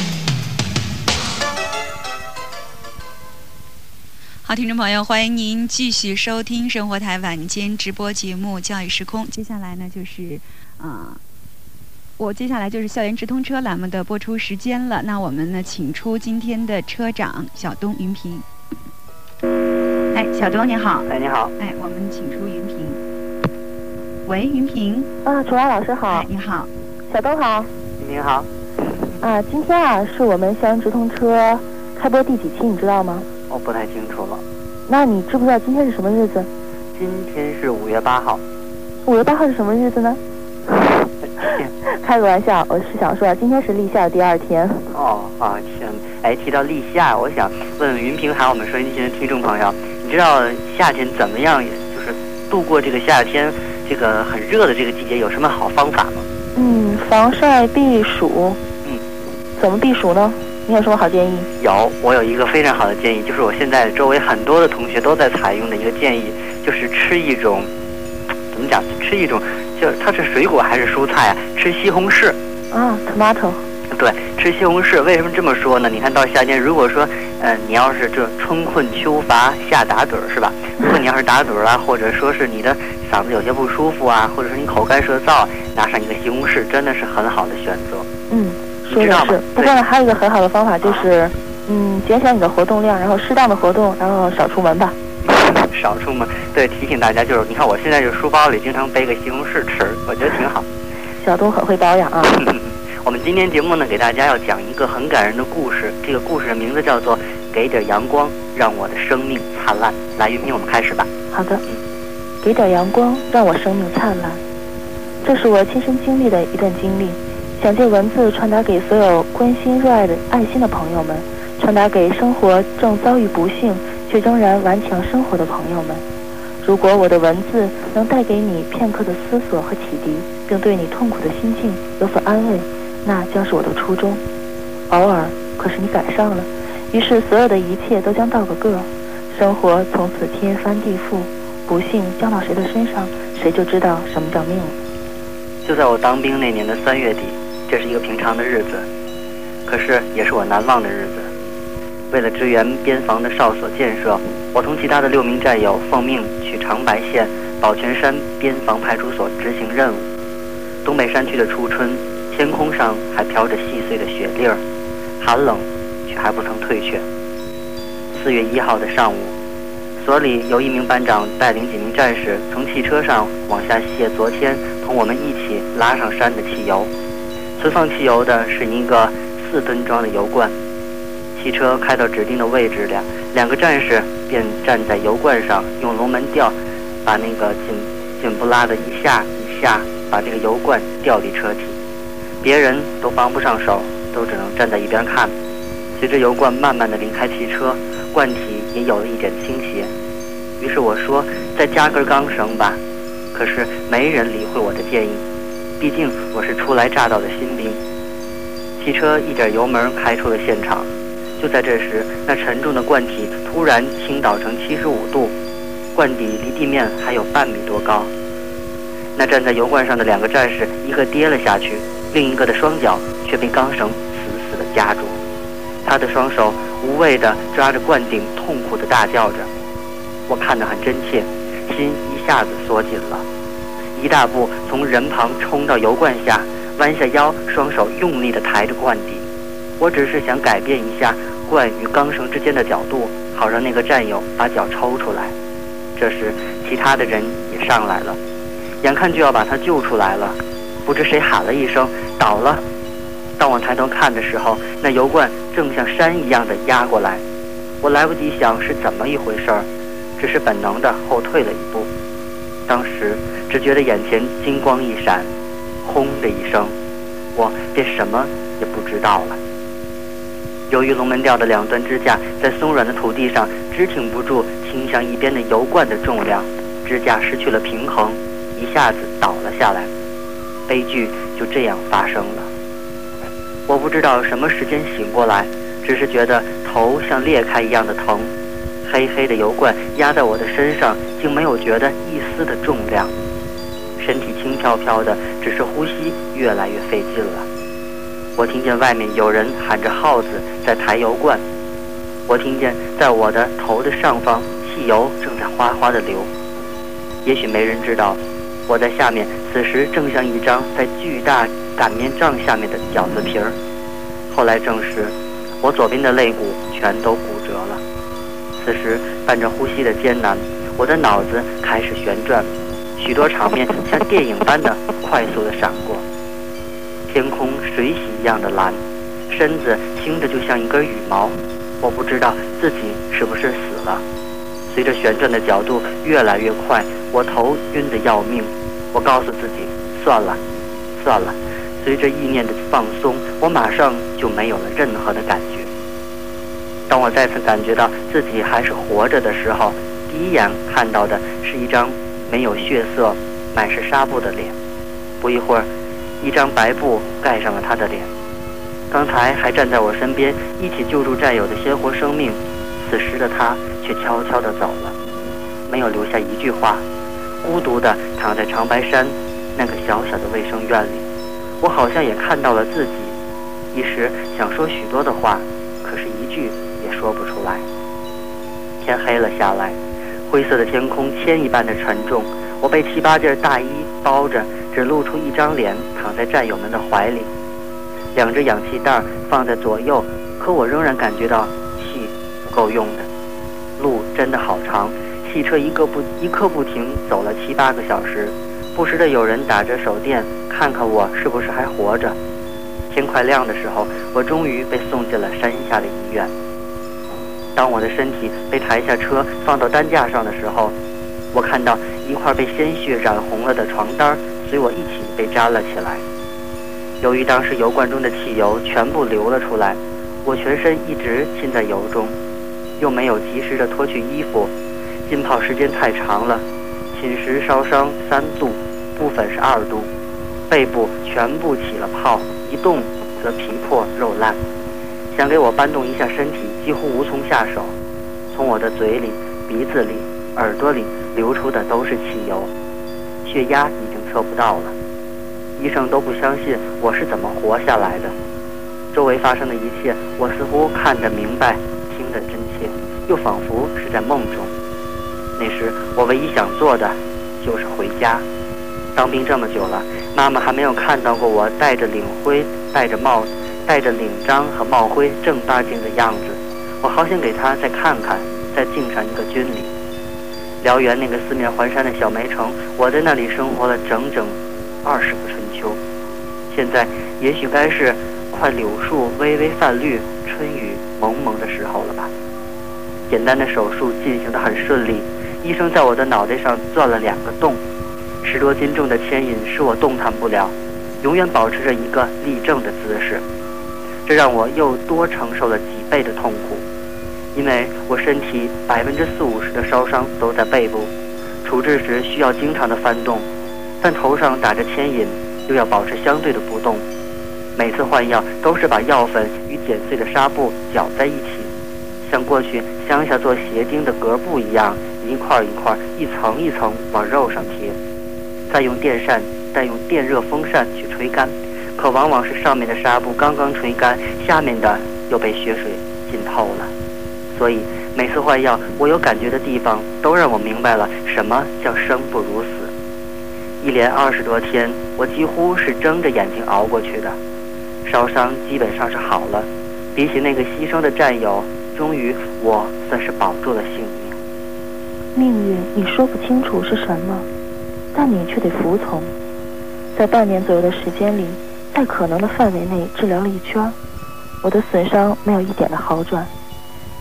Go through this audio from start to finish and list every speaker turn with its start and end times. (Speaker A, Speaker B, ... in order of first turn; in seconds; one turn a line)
Speaker A: 4.4-11.2
Speaker A: 12.2-18.5
Speaker A: 20.1-23.0
Speaker B: 21.1-21.5
Speaker A: 24.2-25.1
Speaker C: 25.2-26.3
Speaker A: 26.1-26.7
Speaker C: 27.1-27.7
Speaker B: 28.0-28.5
Speaker C: 29.2-33.3
Speaker B: 33.5-34.4
Speaker C: 34.9-36.5
Speaker B: 37.0-38.4
Speaker C: 39.1-40.2
Speaker B: 41.4-41.7
Speaker C: 41.4-44.9
Speaker B: 44.9-56.3
Speaker C: 56.5-58.6
Speaker C: 59.6-61.5
Speaker B: 61.6-67.7
Speaker B: 68.5-72.4
Speaker C: 72.7-73.6
Speaker B: 73.9-88.1
Speaker C: 88.3-95.0
Speaker B: 88.9-89.7
Speaker B: 95.2-100.7
Speaker C: 101.2-102.4
Speaker B: 102.3-111.1
Speaker C: 111.3-111.6
Speaker C: 112.4-114.4
Speaker C: 115.2-126.0
Speaker C: 126.6-134.2
Speaker C: 134.9-144.8
Speaker B: 145.6-148.9
Speaker B: 149.7-151.3
Speaker B: 152.1-160.1
Speaker B: 160.8-164.6
Speaker B: 165.2-167.1
Speaker B: 168.1-169.3
Speaker B: 170.0-176.9
Speaker B: 177.6-180.5
Speaker B: 181.3-191.8
Speaker B: 192.4-195.3
Speaker B: 195.9-199.9
Speaker B: 200.6-202.8
Speaker B: 203.3-205.2
Speaker B: 205.8-207.8
Speaker B: 208.8-210.9
Speaker B: 211.4-215.3
Speaker B: 215.9-218.1
Speaker B: 219.2-225.2
Speaker B: 225.8-229.5
Speaker B: 230.3-233.2
Speaker B: 233.9-239.2
Speaker B: 239.8-245.3
Speaker B: 246.0-248.2
Speaker B: 248.8-252.6
Speaker B: 253.4-257.2
Speaker B: 257.8-259.7
Speaker B: 260.2-261.9
Speaker B: 262.7-265.3
Speaker B: 265.9-266.7
Speaker B: 267.4-269.4
Speaker B: 270.7-279.9
Speaker B: 280.7-282.5
Speaker B: 283.7-288.3
Speaker B: 288.8-293.1
Speaker B: 294.0-297.5
Speaker B: 298.4-301.4
Speaker B: 302.3-306.3
Speaker B: 307.2-313.6
Speaker B: 314.3-317.8
Speaker B: 318.6-326.0
Speaker B: 327.1-334.0
Speaker B: 334.7-340.4
Speaker B: 341.0-345.7
Speaker B: 346.9-354.5
Speaker B: 355.2-355.7
Speaker B: 356.2-358.1
Speaker B: 358.9-364.9
Speaker B: 365.7-366.8
Speaker B: 367.4-371.1
Speaker B: 371.6-373.1
Speaker B: 373.7-377.6
Speaker B: 378.8-387.3
Speaker B: 388.1-393.1
Speaker B: 393.8-402.2
Speaker B: 402.9-406.3
Speaker B: 407.6-410.8
Speaker B: 411.3-416.0
Speaker B: 417.0-422.1
Speaker B: 422.8-424.5
Speaker B: 425.1-429.9
Speaker B: 430.5-434.4
Speaker B: 435.1-437.7
Speaker B: 438.3-442.5
Speaker B: 443.2-444.8
Speaker B: 445.6-448.1
Speaker B: 448.9-454.5
Speaker B: 455.4-458.2
Speaker B: 458.9-469.7
Speaker B: 470.6-475.8
Speaker B: 476.5-482.1
Speaker B: 483.1-487.6
Speaker B: 488.2-493.2
Speaker B: 494.1-496.6
Speaker B: 497.3-500.9
Speaker B: 501.4-503.3
Speaker B: 503.8-506.8
Speaker B: 507.6-511.5
Speaker B: 512.0-517.8
Speaker B: 518.5-526.7
Speaker B: 527.3-532.7
Speaker B: 533.6-537.2
Speaker B: 537.8-544.2
Speaker C: 545.1-547.3
Speaker C: 547.9-549.1
Speaker C: 549.9-553.8
Speaker C: 554.4-556.3